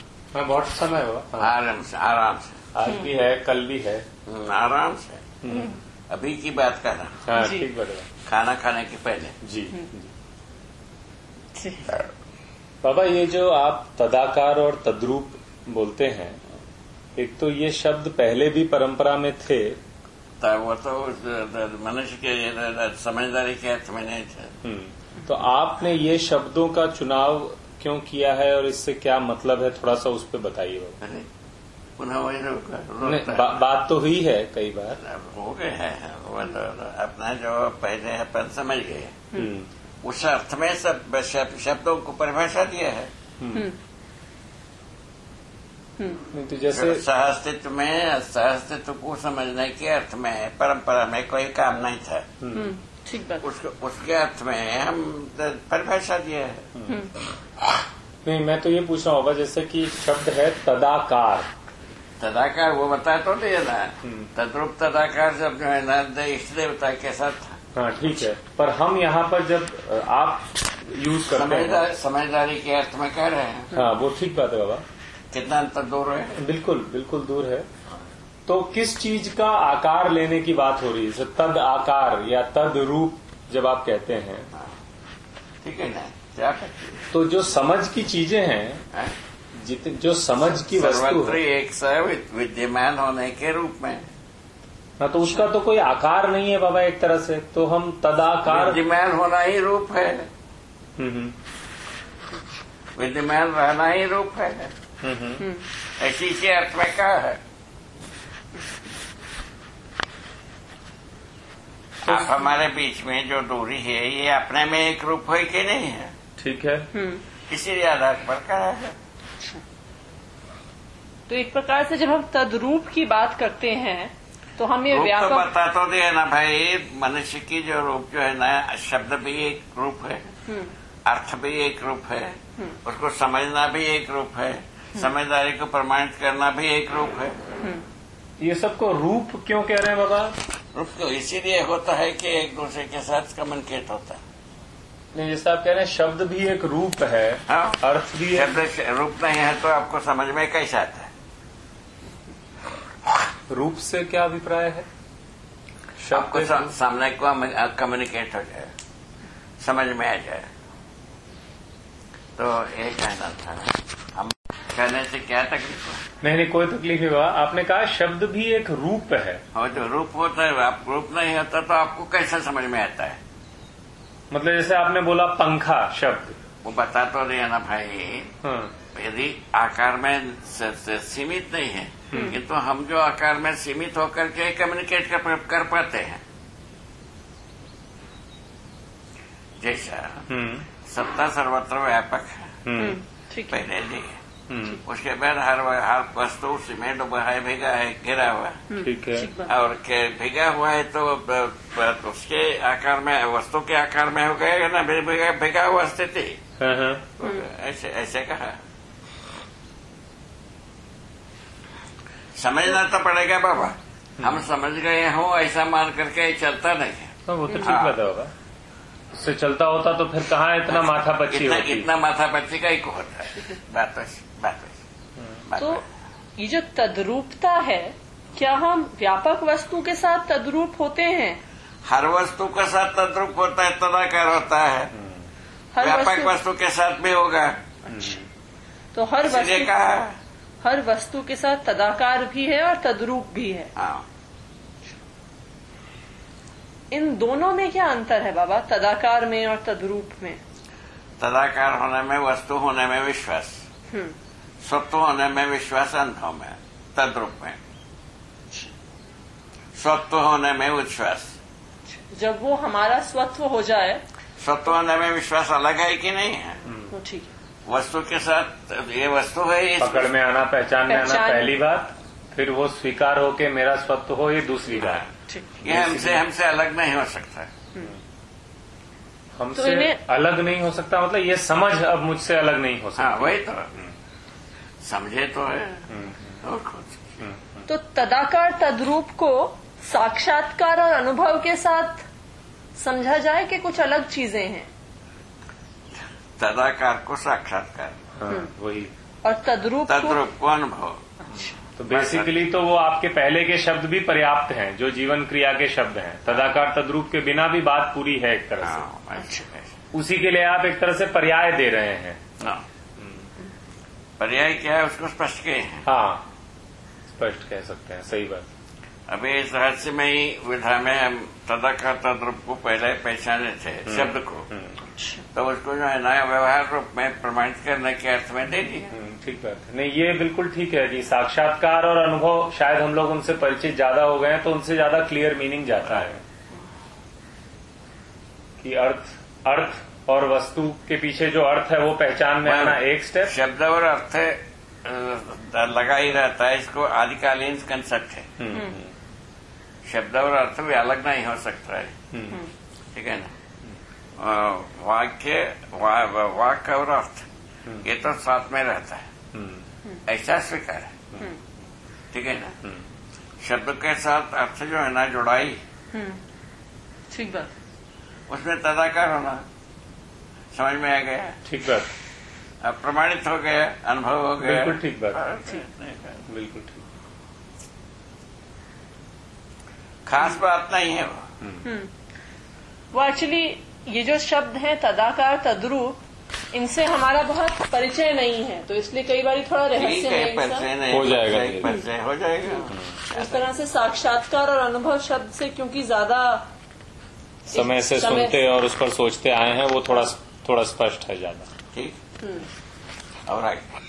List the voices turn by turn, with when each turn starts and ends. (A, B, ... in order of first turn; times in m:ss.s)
0:00.3-0:01.5 A
0:01.4-0:02.6 B
0:02.7-0:04.0 A
0:02.9-0:03.1 C
0:04.2-0:05.4 B
0:05.4-0:05.7 A
0:05.5-0:05.8 C
0:06.1-0:07.3 B
0:07.3-0:08.1 A
0:07.4-0:07.7 C
0:08.2-0:09.4 B
0:09.4-0:10.1 A
0:11.6-0:11.9 C
0:12.8-0:16.4 A
0:17.2-0:19.8 A
0:20.4-0:24.6 B
0:24.6-0:31.0 A
0:31.0-0:31.3 B
0:32.0-0:33.6 B
0:33.0-0:35.0 A
0:35.0-0:39.2 B
0:39.4-0:39.7 A
0:40.0-0:43.1 B
0:43.4-0:43.6 A
0:46.3-0:47.0 A
0:46.7-0:52.3 B
0:52.4-0:52.7 A
0:52.5-0:53.4 C
0:53.4-0:56.7 B
0:58.2-1:01.5 A
1:02.2-1:07.6 B
1:04.0-1:04.3 A
1:07.8-1:11.8 A
1:11.3-1:13.8 B
1:13.7-1:14.8 A
1:15.3-1:16.4 B
1:16.4-1:17.7 A
1:18.5-1:24.5 A
1:25.6-1:27.1 B
1:27.1-1:28.8 A
1:29.6-1:31.4 A
1:30.7-1:34.1 B
1:35.0-1:38.8 A
1:38.5-1:40.3 B
1:41.0-1:41.4 A
1:43.0-1:44.7 B
1:45.0-1:45.4 A
1:45.4-1:45.7 C
1:45.8-1:47.4 B
1:52.0-1:56.2 B
1:52.0-1:52.4 A
1:56.4-1:56.9 A
1:56.9-1:57.2 C
1:57.5-1:59.0 B
2:01.3-2:05.5 C
2:04.9-2:10.4 B
2:10.5-2:10.7 C
2:11.0-2:17.4 B
2:18.4-2:20.4 A
2:20.7-2:24.2 B
2:25.1-2:28.5 A
2:27.5-2:31.1 B
2:33.5-2:34.9 A
2:36.0-2:36.7 A
2:36.1-2:38.7 B
2:39.6-2:40.5 B
2:42.4-2:46.1 B
2:46.2-2:49.4 A
2:49.5-2:53.2 B
2:54.3-2:56.4 A
2:56.6-2:58.4 B
2:58.4-2:58.7 A
2:58.9-3:06.2 B
3:09.6-3:10.3 B
3:10.3-3:10.7 A
3:10.8-3:12.7 B
3:12.6-3:13.0 A
3:12.8-3:13.6 C
3:13.5-3:14.2 B
3:14.5-3:14.8 A
3:14.8-3:18.7 B
3:18.7-3:19.5 C
3:18.8-3:19.3 A
3:19.4-3:26.4 B
3:26.6-3:27.1 A
3:27.2-3:28.6 B
3:32.4-3:38.0 B
3:37.3-3:38.3 A
3:39.1-3:41.9 A
3:40.7-3:44.8 B
3:45.2-3:45.4 A
3:45.5-3:45.8 B
3:46.4-3:51.4 C
3:51.9-3:54.9 B
3:54.9-3:55.2 A
3:55.7-3:56.3 C
3:55.8-3:57.6 B
3:57.9-3:58.2 C
3:57.9-3:58.3 A
3:58.9-3:59.7 C
3:59.2-4:00.2 B
4:00.6-4:03.7 C
4:03.8-4:04.0 B
4:06.9-4:10.4 C
4:11.2-4:13.6 B
4:14.6-4:17.6 B
4:19.8-4:21.4 B
4:21.9-4:24.0 C
4:24.4-4:26.7 B
4:26.7-4:26.9 A
4:26.9-4:27.3 C
4:27.7-4:30.1 B
4:29.8-4:35.0 A
4:30.9-4:31.6 C
4:34.7-4:35.1 B
4:35.3-4:35.5 C
4:35.6-4:36.2 A
4:35.6-4:37.5 B
4:39.4-4:43.9 A
4:39.6-4:40.0 C
4:43.0-4:43.7 B
4:44.8-4:45.9 B
4:45.9-4:46.4 A
4:46.4-4:47.2 B
4:47.2-4:47.7 A
4:47.7-4:52.1 C
4:52.8-4:54.7 C
4:56.0-4:58.0 B
4:58.2-4:58.9 A
4:59.2-5:00.2 C
4:59.9-5:01.0 B
5:01.2-5:01.6 C
5:01.8-5:08.9 A
5:01.9-5:02.4 B
5:08.6-5:09.7 B
5:09.2-5:09.4 C
5:09.9-5:12.4 A
5:13.0-5:13.2 A
5:14.2-5:15.9 B
5:15.9-5:16.2 A
5:17.1-5:18.5 A
5:19.1-5:24.5 B
5:23.9-5:24.8 A
5:25.0-5:25.2 C
5:25.3-5:28.9 B
5:28.9-5:36.2 A
5:38.6-5:43.3 A
5:42.4-5:48.4 B
5:48.4-5:48.9 A
5:48.5-5:48.8 C
5:49.9-5:52.0 B
5:52.1-5:52.4 A
5:52.9-5:53.3 B
5:54.2-5:57.3 B
5:57.8-5:59.1 B
5:59.3-5:59.6 A
6:00.1-6:01.0 B
6:02.1-6:02.6 B
6:03.4-6:05.6 B
6:05.9-6:06.2 C
6:07.1-6:07.5 C
6:08.3-6:09.4 B
6:10.6-6:11.4 B
6:11.5-6:11.9 A
6:12.6-6:16.2 B
6:14.4-6:15.2 A
6:16.3-6:16.8 A
6:20.1-6:21.3 B
6:21.6-6:21.9 C
6:22.9-6:26.0 C
6:26.5-6:30.7 C
6:29.7-6:33.5 B
6:30.9-6:31.7 A
6:32.5-6:36.5 C
6:32.7-6:33.0 A
6:37.5-6:41.5 A
6:37.5-6:38.4 C
6:41.7-6:42.0 B
6:42.2-6:42.5 C
6:43.3-6:43.6 B